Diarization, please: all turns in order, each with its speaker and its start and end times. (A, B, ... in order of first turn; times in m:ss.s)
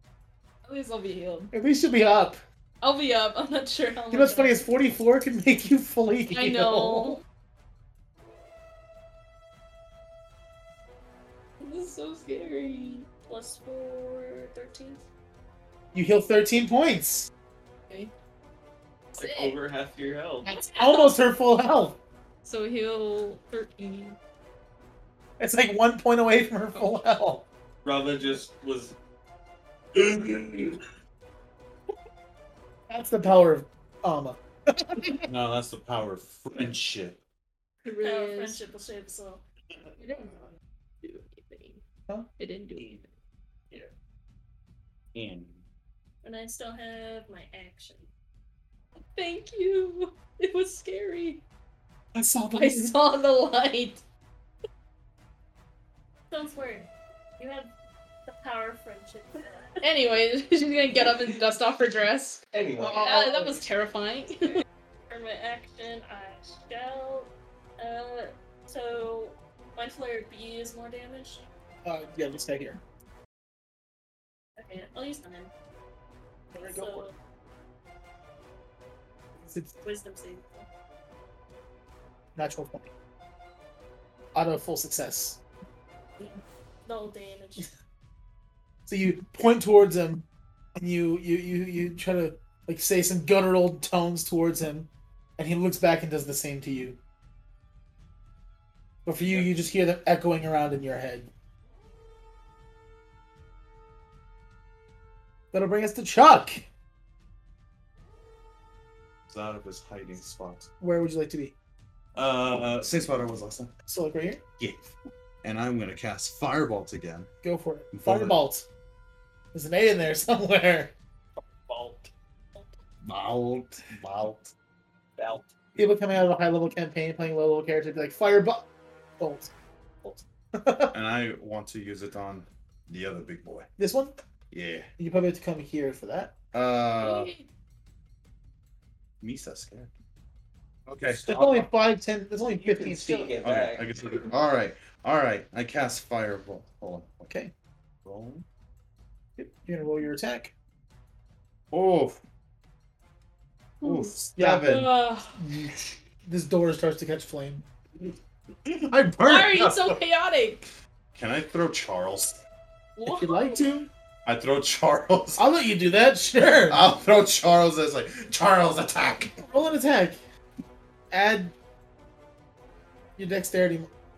0:00.6-0:01.5 A
0:01.5-0:02.4 B
0:02.8-0:04.6 A
0:04.1-0:07.2 B
0:06.3-0:07.2 A
0:11.6-0:13.0 A
0:13.3-0:15.0 C
0:15.9-0:17.3 B
0:19.2-0:20.5 D
0:19.2-0:19.6 A
0:20.4-0:22.0 B
0:20.6-0:21.1 A
0:22.4-0:24.2 A
0:25.4-0:27.4 B
0:27.8-0:28.9 D
0:32.9-0:35.2 B
0:35.3-0:37.2 E
0:37.8-0:38.6 A
0:38.0-0:39.4 C
0:40.0-0:40.4 A
0:41.0-0:41.8 A
0:42.4-0:43.1 A
0:45.1-0:45.6 E
0:46.2-0:48.1 C
0:49.1-0:51.4 A
0:52.1-0:53.0 B
0:52.5-0:54.0 A
0:56.3-0:57.7 C
0:58.3-0:59.8 C
0:59.8-1:04.6 A
1:02.5-1:03.0 D
1:02.8-1:03.6 B
1:05.1-1:11.4 C
1:11.8-1:12.8 B
1:14.6-1:15.5 C
1:16.5-1:17.1 B
1:16.6-1:17.1 C
1:19.4-1:19.8 B
1:19.8-1:20.7 C
1:22.4-1:22.9 B
1:24.3-1:25.4 B
1:26.8-1:27.7 C
1:28.9-1:37.0 B
1:39.0-1:41.3 B
1:39.2-1:39.5 D
1:45.5-1:46.6 B
1:49.3-1:50.7 E
1:50.8-1:51.5 B
1:52.2-1:52.9 D
1:52.4-1:53.7 E
1:53.9-1:54.4 B
1:54.6-1:54.9 E
1:55.4-1:57.3 E
1:57.4-1:58.6 B
1:57.9-1:58.4 E
1:59.5-2:00.9 B
2:01.4-2:02.1 D
2:03.0-2:04.5 E
2:05.2-2:05.5 D
2:05.8-2:08.7 B
2:09.2-2:09.5 B
2:10.1-2:10.9 B
2:10.9-2:13.7 E
2:13.8-2:14.2 B
2:14.5-2:14.9 E
2:15.0-2:16.4 B
2:16.5-2:17.3 E
2:17.0-2:17.4 A
2:19.2-2:19.9 E
2:20.8-2:21.7 E
2:21.2-2:23.4 B
2:22.4-2:23.9 D
2:23.4-2:27.3 E
2:28.0-2:28.4 E
2:29.4-2:30.5 B
2:31.7-2:32.2 E
2:33.8-2:34.9 E
2:33.8-2:35.4 A
2:34.4-2:34.7 B
2:35.3-2:37.6 B
2:38.6-2:40.0 E
2:39.2-2:40.7 A
2:41.2-2:42.4 E
2:43.0-2:43.6 A
2:43.0-2:43.9 B
2:44.2-2:45.4 E
2:45.4-2:46.9 B
2:46.7-2:49.4 E
2:49.4-2:50.2 B
2:51.1-2:51.5 B
2:53.2-2:53.9 B